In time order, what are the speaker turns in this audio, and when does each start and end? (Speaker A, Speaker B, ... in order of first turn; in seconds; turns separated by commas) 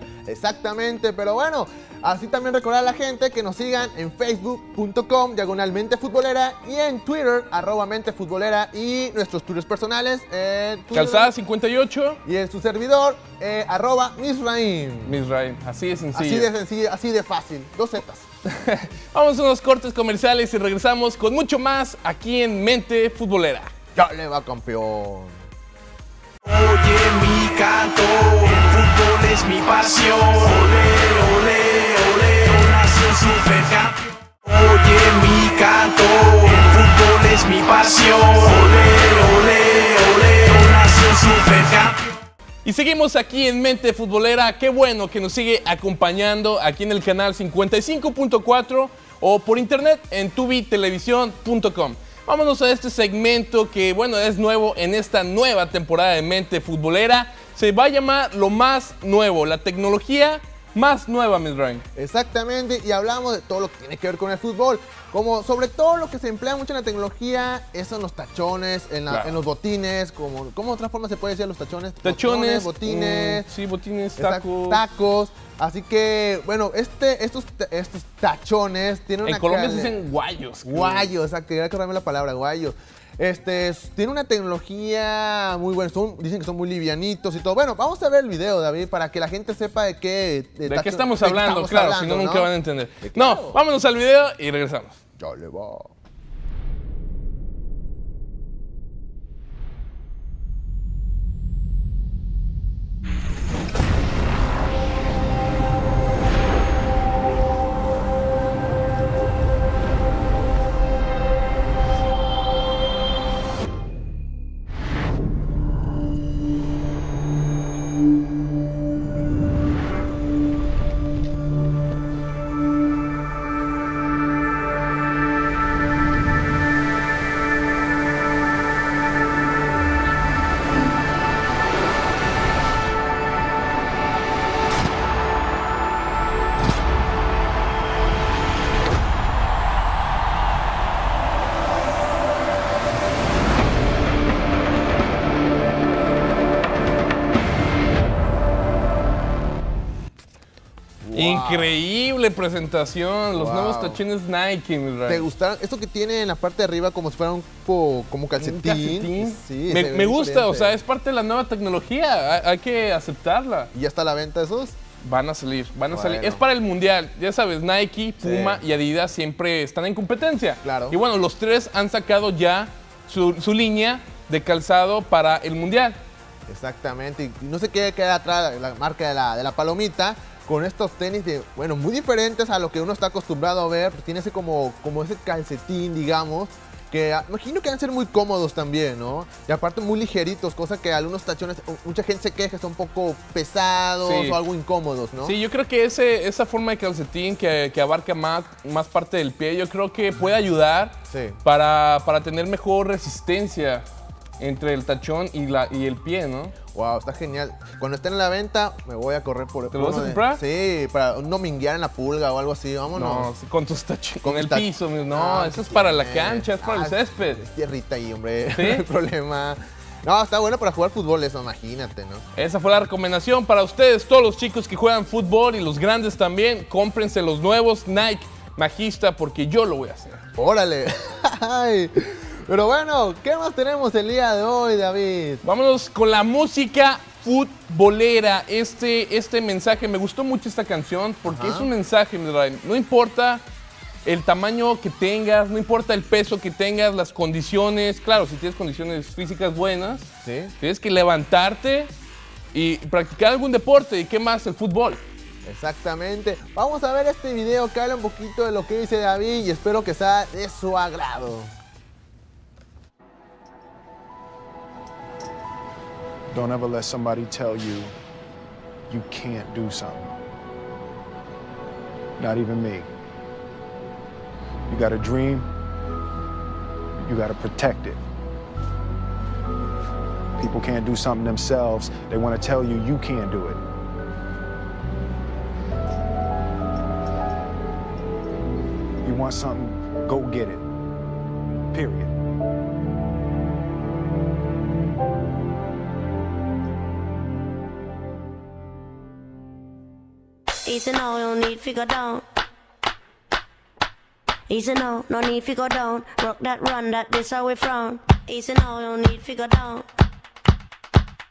Speaker A: 0.3-11.3, Speaker B: 10.9-12.2, Speaker A: 12.2-15.2, Speaker B: 15.1-16.5, Speaker A: 16.1-18.3, Speaker B: 18.5-23.7, Speaker A: 23.9-25.4, Speaker C: 26.4-42.2, Speaker B: 42.6-61.9, Speaker A: 62.0-73.5, Speaker B: 69.1-69.4, Speaker B: 72.0-74.8, Speaker A: 74.2-80.0, Speaker B: 79.2-81.1, Speaker A: 80.7-93.6, Speaker B: 90.7-95.0, Speaker A: 95.2-95.9, Speaker A: 151.0-151.8, Speaker B: 151.2-155.3, Speaker A: 153.3-154.0, Speaker A: 155.1-160.8, Speaker B: 158.4-163.7, Speaker A: 163.7-164.8, Speaker B: 165.0-176.0, Speaker A: 165.9-166.4, Speaker A: 168.2-168.6, Speaker A: 170.6-171.0, Speaker A: 176.5-195.4, Speaker B: 194.0-194.4, Speaker B: 195.2-203.9, Speaker A: 201.1-201.4, Speaker B: 204.4-206.6, Speaker A: 206.7-213.3, Speaker B: 209.7-210.4, Speaker B: 212.9-217.4, Speaker A: 214.2-222.2, Speaker B: 218.5-218.8, Speaker B: 222.4-230.2, Speaker A: 230.4-235.4, Speaker B: 235.4-243.4, Speaker A: 241.3-241.7, Speaker B: 244.1-250.1, Speaker A: 250.2-250.5, Speaker B: 250.6-251.9, Speaker B: 252.5-255.0, Speaker A: 255.4-261.5, Speaker D: 266.3-267.9, Speaker D: 268.9-270.1, Speaker D: 272.2-272.9, Speaker D: 274.7-275.5, Speaker D: 277.0-278.0, Speaker D: 280.4-283.6, Speaker D: 289.0-290.7, Speaker D: 291.7-292.1, Speaker E: 300.6-302.2, Speaker E: 304.5-309.9